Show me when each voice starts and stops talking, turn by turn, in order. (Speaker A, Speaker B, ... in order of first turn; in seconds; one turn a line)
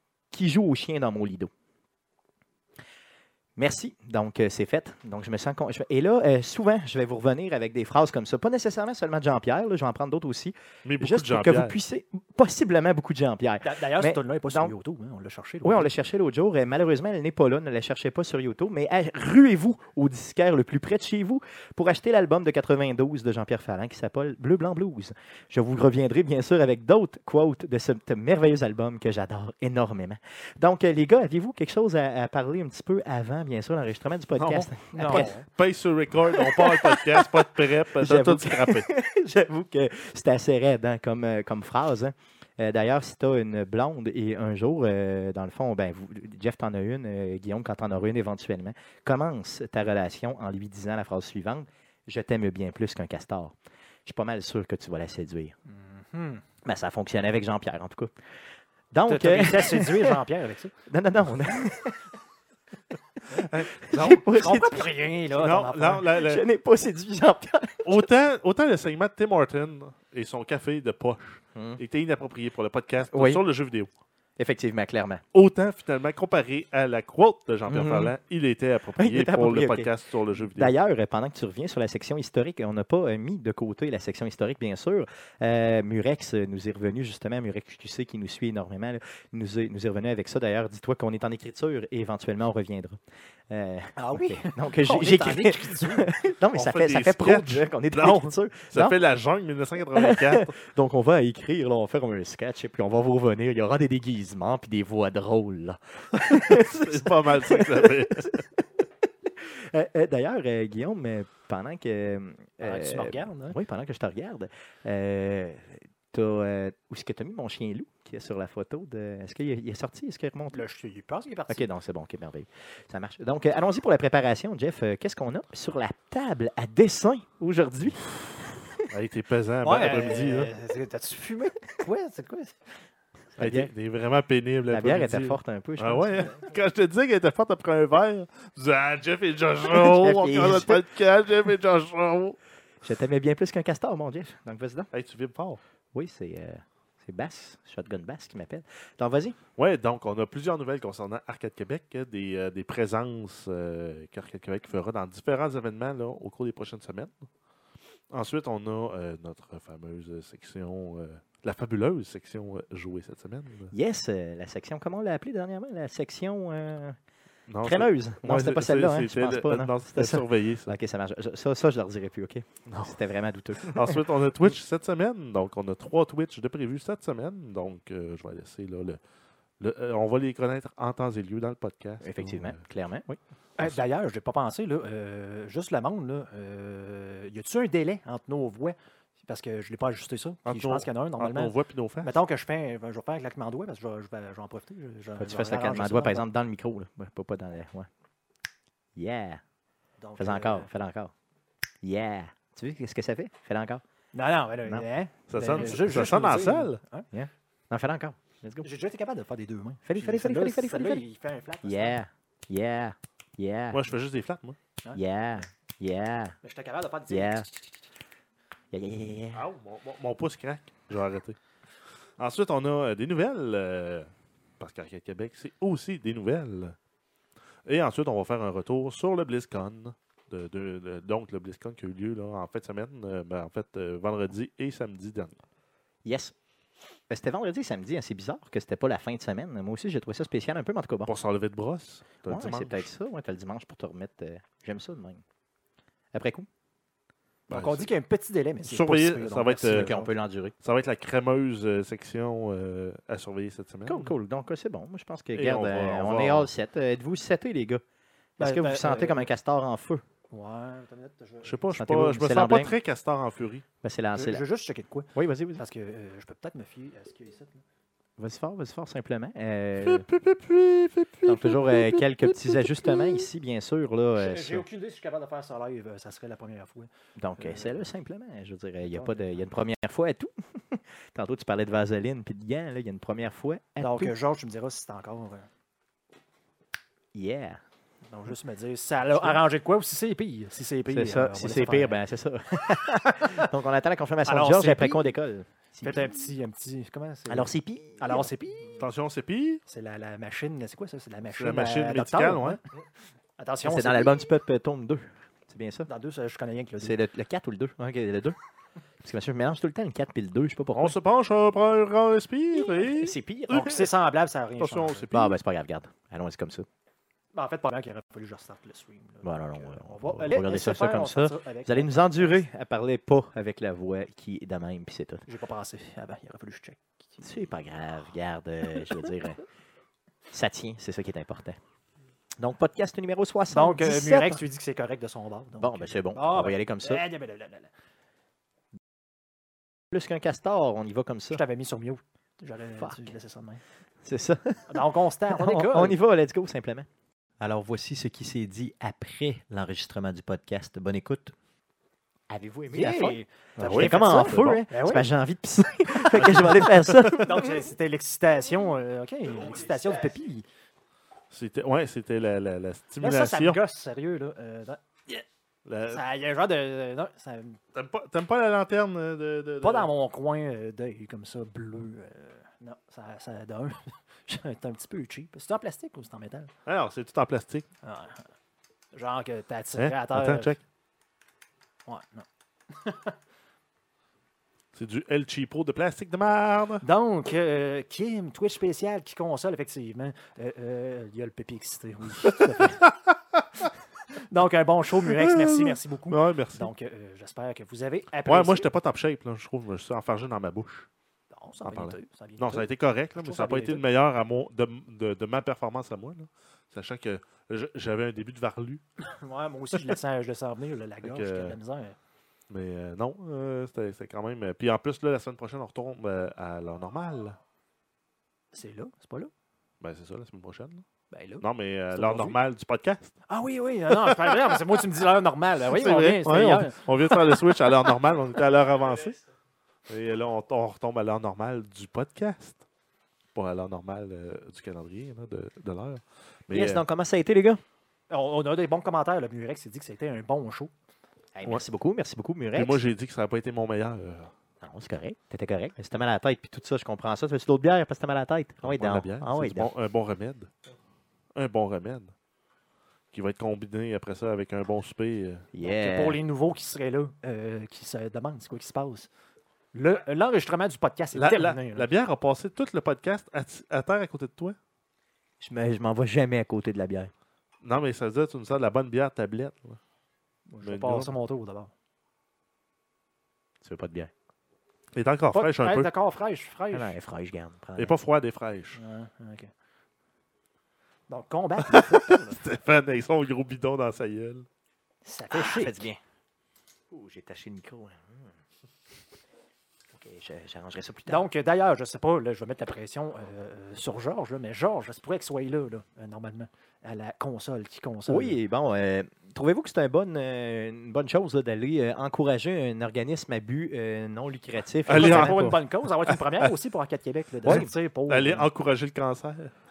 Speaker A: 0.3-1.5
Speaker A: 3.6-14.7
Speaker B: 10.9-11.8
Speaker C: 13.6-15.9
Speaker A: 15.6-35.3
Speaker C: 34.4-35.5
Speaker B: 35.1-38.9
Speaker A: 36.3-53.5
Speaker A: 54.0-55.5
Speaker C: 55.7-56.4
Speaker A: 56.6-58.1
Speaker A: 58.9-60.2
Speaker C: 59.1-60.7
Speaker A: 60.9-62.1
Speaker A: 63.3-64.9
Speaker C: 63.3-66.1
Speaker B: 65.3-66.4
Speaker A: 66.1-68.0
Speaker B: 67.8-73.9
Speaker A: 71.5-71.8
Speaker A: 73.1-73.4
Speaker A: 74.4-75.2
Speaker B: 75.3-80.7
Speaker A: 77.7-78.1
Speaker A: 79.0-93.0
Speaker A: 93.5-99.0
Speaker C: 94.0-96.1
Speaker B: 96.5-100.5
Speaker A: 99.9-108.8
Speaker B: 106.3-108.4
Speaker A: 109.4-120.6
Speaker C: 112.6-113.6
Speaker C: 120.5-121.7
Speaker A: 121.5-128.8
Speaker B: 128.9-130.5
Speaker C: 129.6-132.6
Speaker A: 133.4-133.7
Speaker B: 133.4-142.4
Speaker A: 134.7-136.3
Speaker A: 139.7-140.8
Speaker A: 142.8-144.9
Speaker B: 144.9-145.6
Speaker A: 145.9-149.4
Speaker B: 149.6-157.2
Speaker B: 158.1-163.7
Speaker A: 163.7-167.0
Speaker B: 167.5-170.7
Speaker A: 167.6-174.0
Speaker B: 173.6-179.0
Speaker B: 179.6-182.6
Speaker A: 182.0-183.2
Speaker C: 183.6-196.3
Speaker B: 190.5-192.2
Speaker A: 195.2-197.9
Speaker A: 199.0-199.4
Speaker C: 200.0-200.7
Speaker A: 200.2-201.1
Speaker A: 201.8-203.8
Speaker C: 204.1-207.1
Speaker B: 205.3-206.8
Speaker A: 207.1-208.7
Speaker C: 208.6-212.0
Speaker A: 209.9-211.0
Speaker A: 211.6-213.9
Speaker B: 213.7-214.6
Speaker A: 214.9-216.4
Speaker C: 216.4-217.3
Speaker A: 217.1-217.5
Speaker A: 218.7-219.4
Speaker B: 219.3-221.4
Speaker B: 222.2-224.1
Speaker B: 224.6-226.8
Speaker B: 227.7-235.4
Speaker A: 236.1-236.3
Speaker A: 237.1-241.1
Speaker B: 241.1-242.9
Speaker A: 242.3-245.2
Speaker A: 246.1-246.5
Speaker B: 247.5-247.9
Speaker C: 247.5-250.1
Speaker B: 248.7-249.9
Speaker A: 249.6-250.5
Speaker B: 250.6-254.1
Speaker A: 253.9-257.8
Speaker B: 255.3-256.5
Speaker C: 258.4-259.3
Speaker A: 258.4-260.0
Speaker C: 260.3-261.6
Speaker B: 261.4-263.6
Speaker A: 261.7-262.8
Speaker A: 263.8-264.4
Speaker C: 264.1-267.6
Speaker A: 265.1-265.6
Speaker A: 268.2-270.1
Speaker B: 269.8-273.3
Speaker A: 271.3-274.6
Speaker C: 274.1-277.9
Speaker A: 277.2-284.1
Speaker C: 278.8-279.4
Speaker C: 283.8-285.5
Speaker A: 287.1-287.6
Speaker C: 288.1-292.0
Speaker A: 289.1-289.4
Speaker A: 290.9-296.2
Speaker C: 293.1-293.4
Speaker C: 294.2-295.1
Speaker C: 295.8-298.9
Speaker A: 297.3-298.3
Speaker B: 298.8-299.6
Speaker C: 299.7-302.7
Speaker B: 301.3-302.6
Speaker C: 303.4-304.2
Speaker A: 303.6-305.9
Speaker C: 305.9-307.0
Speaker A: 306.8-308.4
Speaker A: 309.0-311.0
Speaker B: 310.7-313.8
Speaker A: 312.7-313.9
Speaker C: 313.5-315.1
Speaker B: 314.6-315.4
Speaker A: 315.1-316.7
Speaker C: 317.3-322.4
Speaker A: 319.2-325.3
Speaker C: 325.3-327.3
Speaker A: 327.2-329.4
Speaker A: 330.3-331.6
Speaker A: 332.4-334.4
Speaker C: 333.5-337.7
Speaker A: 335.6-337.0
Speaker A: 339.9-341.4
Speaker C: 341.3-343.6
Speaker A: 342.8-343.1
Speaker A: 344.0-344.8
Speaker C: 344.7-346.0
Speaker A: 345.3-346.9
Speaker A: 347.4-351.4
Speaker A: 352.3-357.5
Speaker C: 352.7-355.1
Speaker B: 353.6-354.6
Speaker B: 356.1-357.3
Speaker C: 357.2-360.5
Speaker B: 361.3-363.6
Speaker C: 363.0-365.2
Speaker B: 365.7-366.0
Speaker C: 365.9-367.6
Speaker B: 367.7-369.9
Speaker C: 369.6-376.5
Speaker B: 376.7-377.7
Speaker C: 377.8-378.2
Speaker C: 378.9-380.6
Speaker B: 379.8-380.6
Speaker C: 381.9-383.2
Speaker B: 384.8-386.9
Speaker C: 386.8-392.8
Speaker B: 392.2-392.7
Speaker C: 394.3-398.7
Speaker B: 395.0-396.7
Speaker B: 398.3-400.9
Speaker C: 401.3-403.8
Speaker B: 401.6-408.8
Speaker C: 409.0-412.0
Speaker B: 411.0-411.6
Speaker B: 412.5-417.4
Speaker C: 418.5-419.3
Speaker B: 419.8-420.8
Speaker C: 421.1-422.4
Speaker B: 421.4-423.1
Speaker C: 423.3-427.4
Speaker B: 423.9-424.6
Speaker B: 425.6-429.2
Speaker B: 429.9-432.6
Speaker B: 433.4-436.8
Speaker A: 436.5-437.6
Speaker C: 438.1-440.7
Speaker A: 441.4-442.8
Speaker B: 442.5-444.3
Speaker A: 444.6-449.7
Speaker B: 448.6-450.5
Speaker B: 451.4-452.1
Speaker B: 453.1-455.5
Speaker A: 455.5-456.2
Speaker C: 455.6-459.1
Speaker C: 459.7-461.9
Speaker B: 461.1-464.6
Speaker A: 465.4-467.1
Speaker B: 467.6-469.8
Speaker C: 470.5-471.7
Speaker B: 470.6-471.1
Speaker A: 473.6-474.1
Speaker B: 474.9-475.9
Speaker C: 475.3-477.0
Speaker A: 476.7-477.9
Speaker B: 477.8-478.8
Speaker C: 478.8-479.5
Speaker C: 481.1-482.4
Speaker B: 481.7-484.5
Speaker C: 485.0-485.9
Speaker A: 485.3-486.0
Speaker A: 486.9-488.2
Speaker A: 489.9-491.3
Speaker C: 491.1-498.4
Speaker A: 498.1-505.6
Speaker B: 504.9-506.5
Speaker C: 504.9-508.5
Speaker A: 507.4-507.7
Speaker B: 507.4-509.5